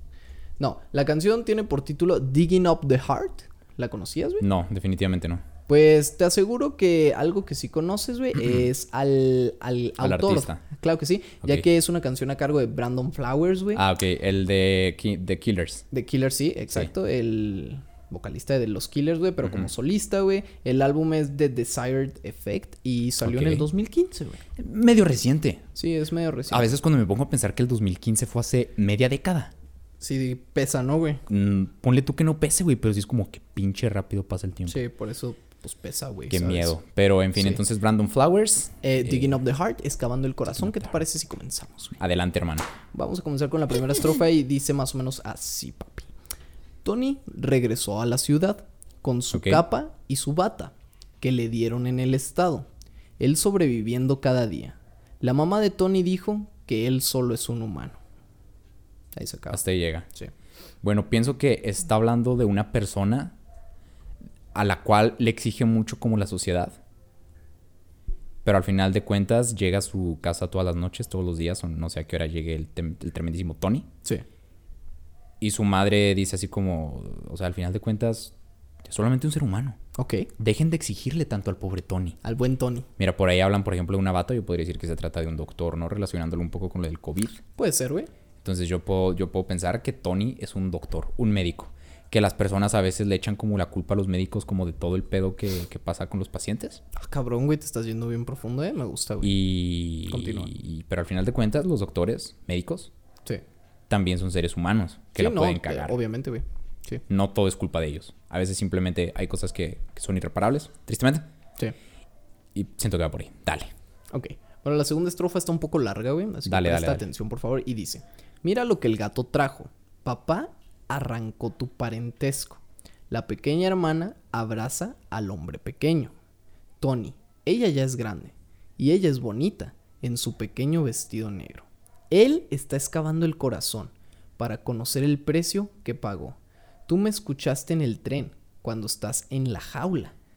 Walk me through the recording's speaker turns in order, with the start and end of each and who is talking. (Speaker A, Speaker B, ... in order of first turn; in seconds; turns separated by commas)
Speaker A: 0.6-4.4, Speaker B: 4.4-5.4, Speaker A: 5.7-13.8, Speaker B: 8.4-8.7, Speaker B: 10.0-10.6, Speaker B: 13.7-15.8, Speaker A: 15.9-24.4, Speaker B: 19.4-19.7, Speaker B: 23.2-23.6, Speaker B: 24.6-25.6, Speaker A: 25.7-26.8, Speaker B: 26.5-29.5, Speaker A: 30.0-31.2, Speaker B: 31.3-34.8, Speaker A: 34.7-36.8, Speaker B: 36.3-39.4, Speaker A: 37.4-37.6, Speaker A: 38.8-42.0, Speaker B: 40.5-41.0, Speaker B: 42.0-42.7, Speaker A: 42.9-46.1, Speaker A: 46.8-52.7, Speaker B: 49.3-49.6, Speaker A: 53.2-58.0, Speaker A: 59.1-59.6, Speaker B: 59.5-60.1, Speaker B: 60.8-63.4, Speaker B: 64.5-66.8, Speaker B: 68.4-73.9, Speaker B: 75.4-78.3, Speaker B: 78.8-79.8, Speaker A: 80.0-80.3, Speaker B: 80.4-82.2, Speaker A: 82.2-82.9, Speaker B: 83.0-87.4, Speaker A: 87.6-88.1, Speaker B: 88.4-96.8, Speaker A: 97.0-99.4, Speaker B: 99.2-102.9, Speaker A: 100.1-100.5, Speaker B: 103.9-106.0, Speaker A: 105.2-107.0, Speaker B: 107.1-111.3, Speaker B: 112.5-113.7, Speaker A: 114.1-126.1, Speaker B: 116.5-117.0, Speaker A: 126.8-136.4, Speaker A: 136.9-140.1